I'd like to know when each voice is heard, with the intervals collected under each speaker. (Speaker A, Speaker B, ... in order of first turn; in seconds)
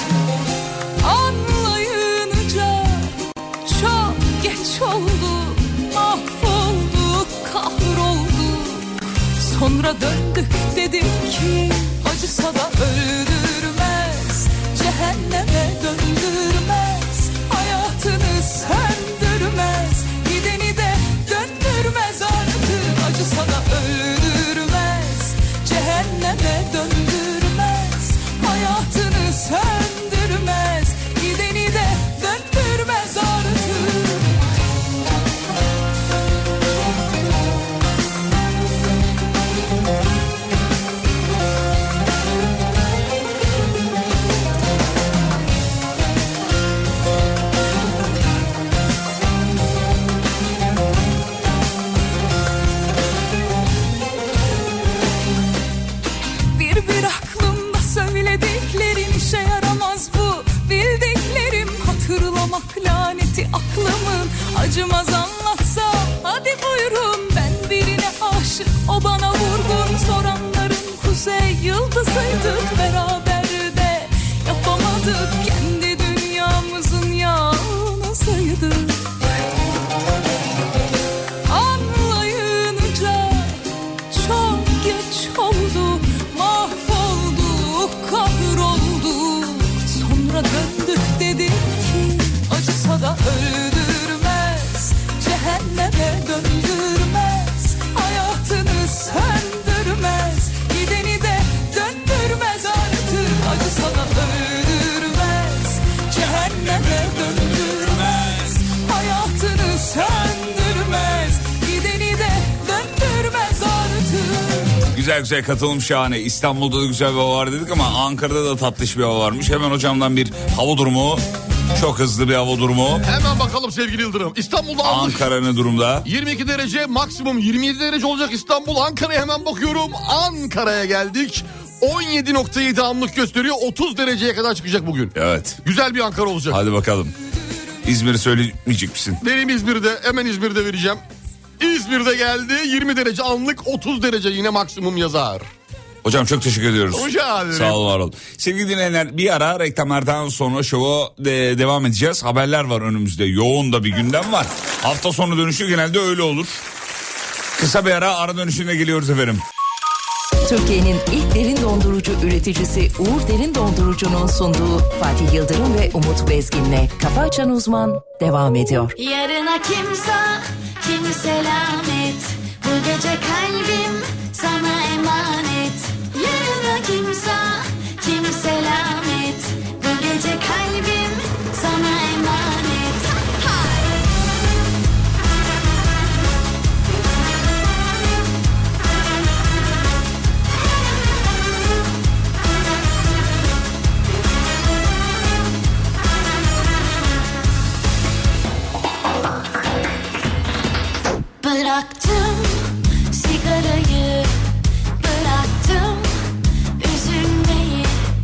Speaker A: 1.0-34.3, 56.5-79.0, 81.5-114.8
Speaker B: 107.0-108.3, 114.9-123.1, 124.8-126.1, 135.2-135.6, 136.5-137.2, 137.8-139.2, 146.0-156.7, 157.6-159.4
Speaker C: 123.0-125.3, 126.0-136.6, 139.2-141.0, 141.6-145.5, 146.9-147.8
Speaker D: 160.4-168.9
Speaker E: 169.0-183.7, 201.4-204.3, 205.0-206.3, 206.8-208.1